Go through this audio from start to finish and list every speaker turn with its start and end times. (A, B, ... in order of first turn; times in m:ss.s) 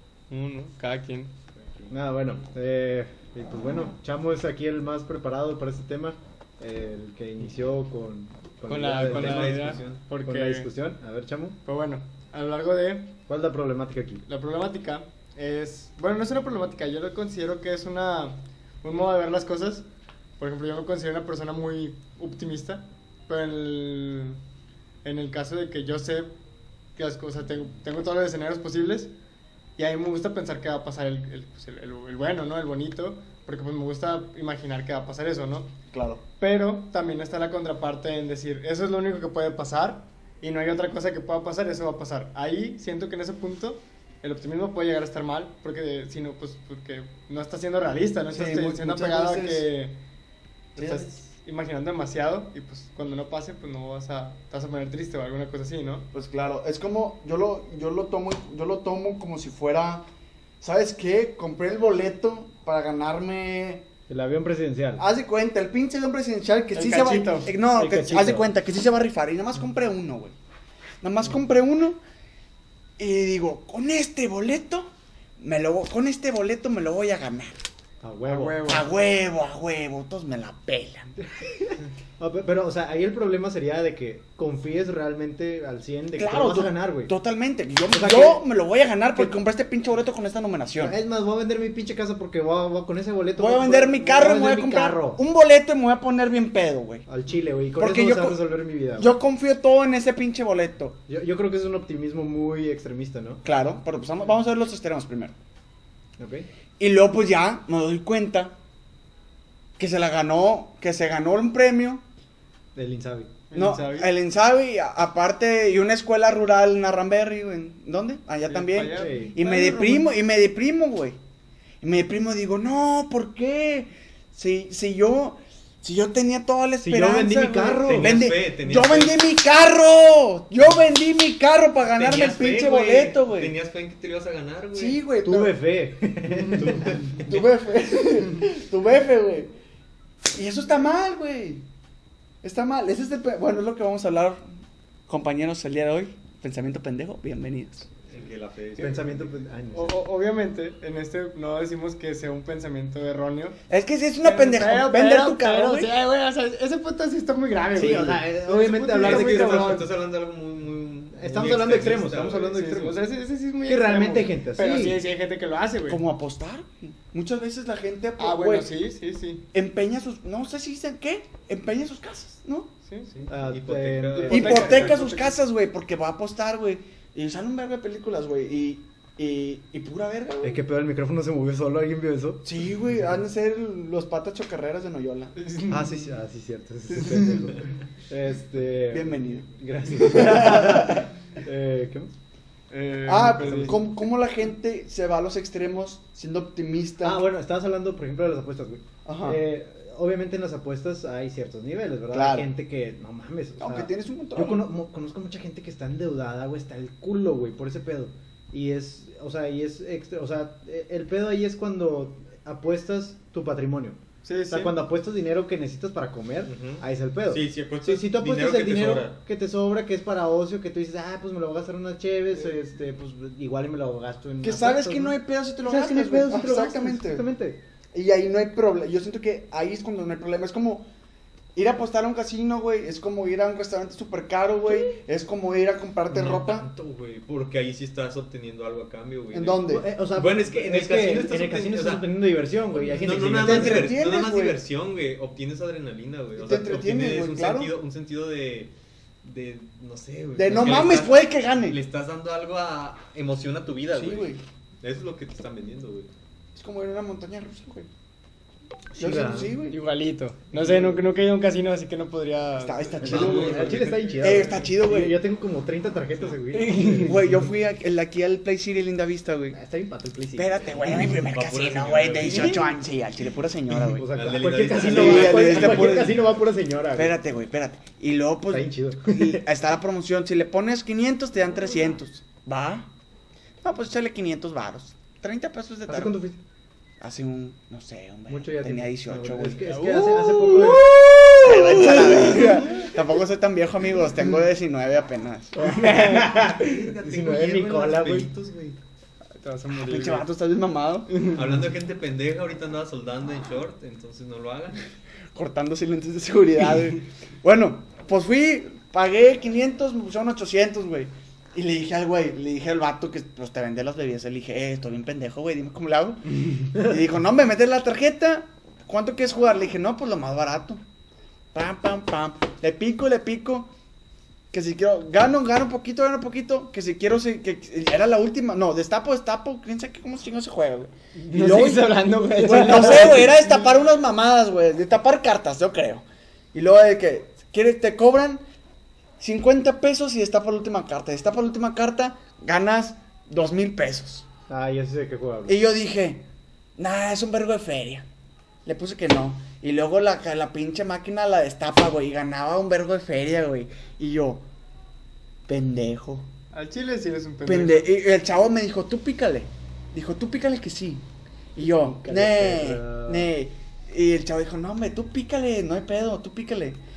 0:00.3-0:01.3 A
0:01.5-0:01.9 B
0:01.9-0:11.6 C
0:08.7-0:10.7 A
0:08.9-0:10.0 B
0:11.6-0:13.1 A
0:13.3-0:14.2 C
0:14.3-0:19.8 A
0:20.4-0:24.4 A
0:25.0-0:26.3 A
0:27.0-0:29.1 A
0:29.8-0:35.7 A
0:35.9-0:36.2 D
0:36.4-0:50.0 A
0:48.3-0:49.6 D
0:50.8-0:56.0 A
0:56.1-1:00.0 D
1:00.6-1:03.8 D
1:04.1-1:05.0 C
1:05.0-1:10.3 D
1:06.7-1:07.5 A
1:07.7-1:08.5 C
1:11.0-1:12.0 D
1:13.0-1:17.6 D
1:18.0-1:18.7 C
1:18.3-1:18.9 A
1:18.6-1:21.2 D
1:21.4-1:27.1 C
1:26.2-1:31.0 D
1:27.9-1:28.4 C
1:30.8-1:35.2 C
1:33.4-1:37.0 D
1:37.1-1:39.1 C
1:37.8-1:41.0 D
1:41.1-1:43.4 C
1:43.4-1:45.3 D
1:46.2-1:46.5 C
1:46.8-1:48.6 D
1:49.8-1:52.0 D
1:52.7-1:53.3 C
1:53.5-1:54.1 A
1:53.5-2:01.2 D
1:58.5-2:00.1 A
1:58.9-1:59.4 C
2:01.8-2:13.5 D
2:06.8-2:08.2 C
2:07.9-2:09.2 B
2:11.9-2:15.0 B
2:14.7-2:15.6 D
2:15.2-2:17.0 C
2:16.9-2:17.4 B
2:17.0-2:19.5 D
2:20.3-2:21.6 D
2:22.4-2:24.4 D
2:25.1-2:27.9 D
2:28.1-2:29.3 B
2:28.8-2:29.9 C
2:29.7-2:33.6 A
2:33.7-2:35.9 D
2:34.2-2:39.9 A
2:37.7-2:39.8 C
2:39.0-2:42.7 B
2:41.2-2:43.0 C
2:42.4-2:46.0 A
2:43.6-2:45.0 C
2:45.9-2:48.7 D
2:48.2-2:49.4 A
2:49.5-2:52.7 D
2:53.1-2:54.8 B
2:53.3-2:54.9 C
2:54.2-2:55.3 A
2:54.3-3:00.6 D
3:00.4-3:02.4 C
3:02.4-3:05.3 D
3:05.4-3:06.1 A
3:05.7-3:12.1 C
3:07.0-3:07.4 A
3:08.9-3:11.1 D
3:12.7-3:13.8 A
3:13.0-3:17.3 D
3:17.0-3:47.6 C
3:19.0-3:19.4 D
3:22.1-3:22.5 D
3:23.6-3:24.7 D
3:34.2-3:34.7 A
3:36.4-3:39.2 B
3:44.4-3:47.2 D
3:47.9-3:50.8 D
3:51.5-3:56.7 D
3:56.1-3:59.6 B
3:59.3-3:59.8 D
3:59.7-4:04.0 C
4:00.1-4:02.2 B
4:02.7-4:08.7 B
4:03.3-4:04.6 D
4:06.4-4:07.7 D
4:09.2-4:16.1 B
4:10.3-4:11.8 D
4:13.9-4:14.4 D
4:16.5-4:17.9 D
4:18.9-4:19.6 C
4:19.0-4:19.8 D
4:19.7-4:22.9 A
4:20.6-4:21.0 C
4:22.6-4:25.2 D
4:23.0-4:24.7 B
4:23.0-4:27.2 C
4:26.5-4:29.6 D
4:29.5-4:30.8 C
4:30.4-4:34.1 D
4:31.1-4:32.7 B
4:32.3-4:32.6 C
4:33.7-4:37.2 C
4:34.1-4:36.2 B
4:34.7-4:36.2 D
4:36.9-4:42.9 D
4:38.5-4:39.4 C
4:43.6-4:46.2 D
4:45.9-4:46.4 C
4:47.0-4:56.2 D
4:48.3-4:52.8 C
4:49.6-4:50.5 A
4:55.6-4:58.3 C
4:56.2-4:58.8 B
4:59.4-5:00.2 A
4:59.7-5:01.1 D
5:01.3-5:04.8 B
5:05.3-5:20.8 D
5:21.5-5:23.7 D
5:24.5-5:38.4 D
5:31.3-5:33.7 A
5:39.2-5:44.2 D
5:44.5-5:45.6 C
5:45.5-5:46.2 D
5:46.8-5:48.0 D
5:48.6-5:54.4 D
5:55.5-5:56.3 D
5:56.5-5:57.9 A
5:57.4-6:01.0 D
6:01.6-6:06.8 D
6:01.6-6:03.3 C